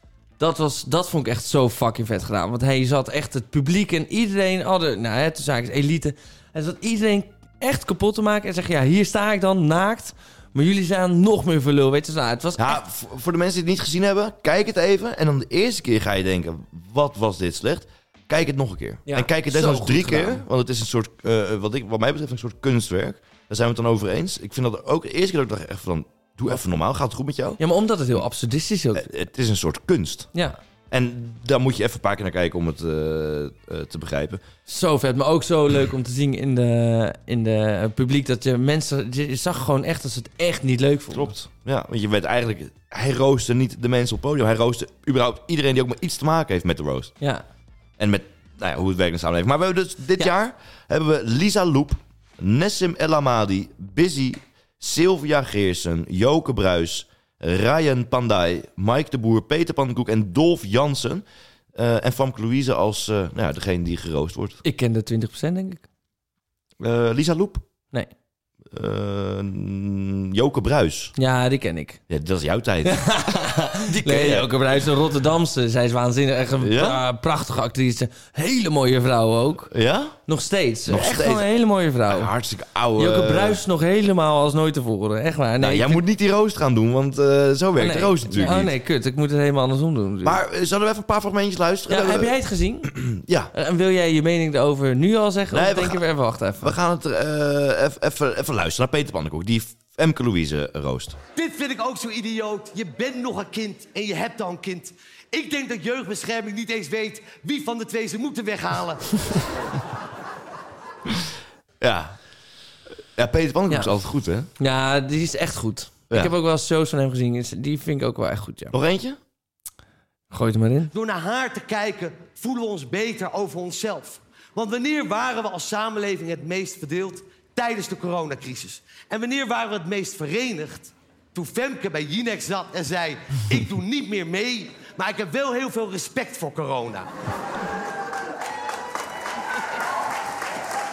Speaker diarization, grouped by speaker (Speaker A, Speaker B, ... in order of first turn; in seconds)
Speaker A: 0.4-12.8, 19.1-20.4, 27.6-29.1, 34.7-41.3, 64.6-65.8, 71.2-72.0, 72.8-79.7, 80.3-82.3, 83.0-86.0, 87.8-90.4, 91.9-93.0, 93.5-96.8, 114.6-118.7, 120.3-120.9
Speaker B: 12.6-27.6, 28.9-30.3, 30.9-34.4, 41.1-47.1, 48.0-64.6, 66.8-67.7, 68.7-71.1, 72.1-73.2, 73.8-74.5, 76.6-77.0, 79.7-80.2, 80.9-81.5, 82.1-83.6, 85.6-88.7, 90.2-93.5, 95.5-96.0, 96.6-101.2, 111.1-112.2, 113.2-114.5, 118.7-119.2
Speaker C: 101.4-109.3, 120.9-137.1